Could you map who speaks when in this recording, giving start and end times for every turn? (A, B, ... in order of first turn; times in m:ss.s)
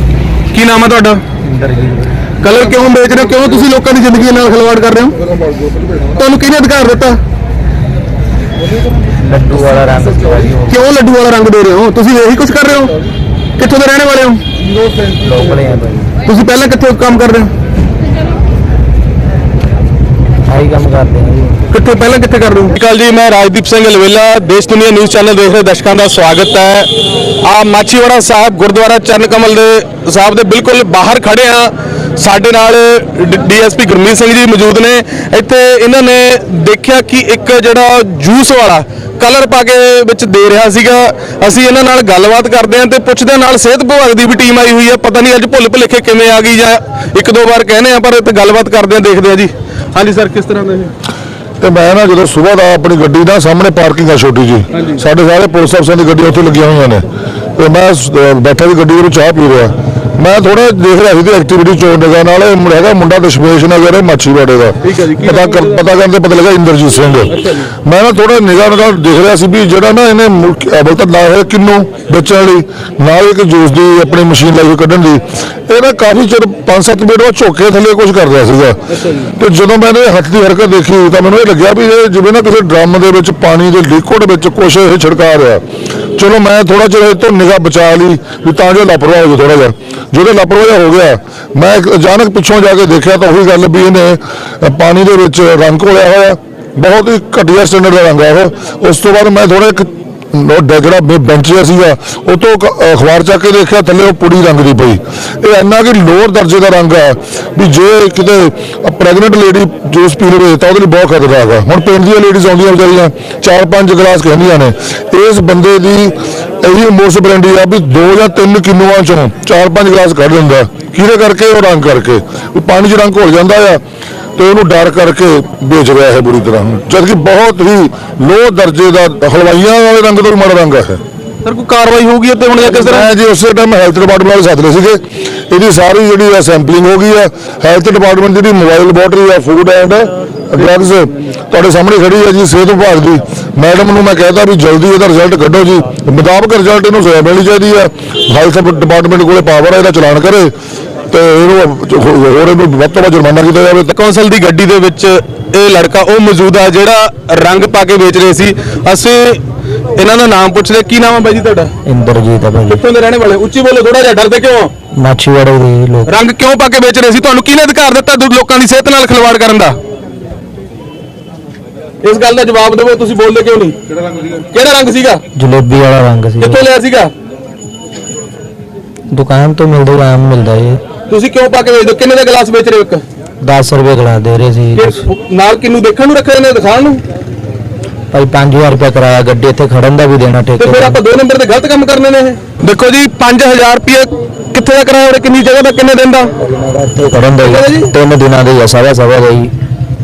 0:00.5-0:01.2 A
0:01.4-0:02.2 B
0:02.4-0:05.2 A
0:06.1-0:07.2 A
0:09.2-0:10.8 B
0:10.7-0:12.9 A
0:13.6-0:14.4 A
0:15.2-0:16.1 B
0:16.2-0:17.5 A
0:20.5-0:21.6 B
0:21.7-0:26.9 A
0:27.4-0:50.9 A
0:51.6-1:25.6 C
1:04.8-1:05.8 A
1:07.3-1:07.7 A
1:26.2-2:03.8 C
2:04.4-2:11.0 C
2:11.4-2:13.1 A
2:12.7-2:30.5 C
2:31.1-2:33.9 C
2:33.9-2:39.4 A
2:40.0-2:41.7 A
2:41.8-2:42.8 B
2:42.7-2:44.7 A
2:45.0-2:46.2 B
2:46.1-2:49.8 A
2:52.0-2:53.8 A
2:54.5-2:55.2 A
2:55.4-2:56.6 B
2:56.4-2:57.1 A
2:59.1-3:00.8 B
3:01.1-3:03.0 A
3:03.4-3:05.0 B
3:04.8-3:07.0 A
3:08.1-3:11.0 B
3:10.6-3:16.3 A
3:16.3-3:19.5 B
3:17.4-3:17.9 A